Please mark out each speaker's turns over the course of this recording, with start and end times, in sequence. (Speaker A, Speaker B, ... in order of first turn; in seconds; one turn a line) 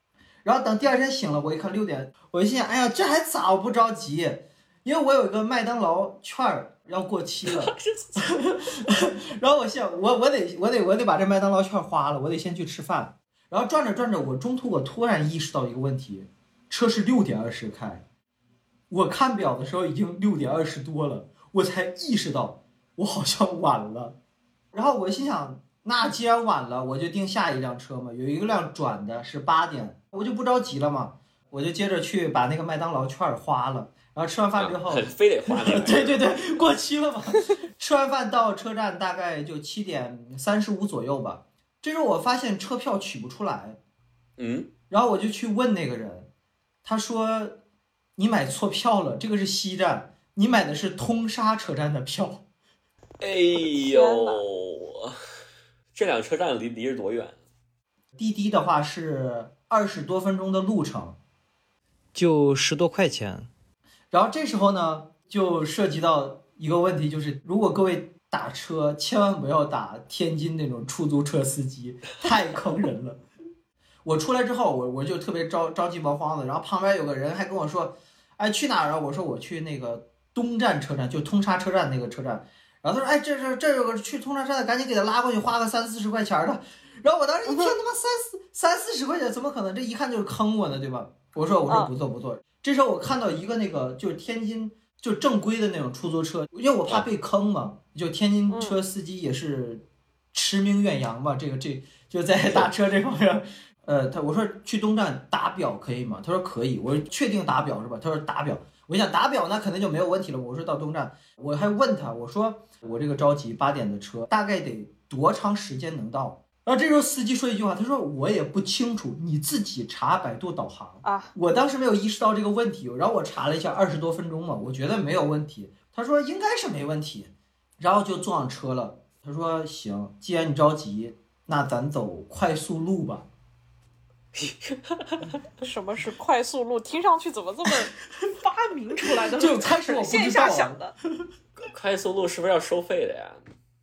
Speaker A: 0.4-18.0
Speaker B: 7.5-8.4
Speaker A: 18.9-24.2
Speaker A: 24.7-43.8
Speaker B: 34.6-36.2
Speaker B: 44.4-44.7
Speaker A: 44.9-46.3
Speaker A: 46.8-47.6
Speaker A: 48.2-52.4
Speaker B: 53.2-55.1
Speaker C: 53.5-54.4
Speaker B: 55.9-57.4
Speaker A: 58.2-61.2
Speaker A: 62.1-63.5
Speaker A: 64.1-73.2
Speaker A: 74.0-133.3
Speaker C: 87.5-87.7
Speaker C: 98.5-98.8
Speaker C: 121.0-121.3
Speaker B: 134.3-135.3
Speaker C: 135.6-140.9
Speaker A: 139.4-140.9
Speaker B: 141.7-143.4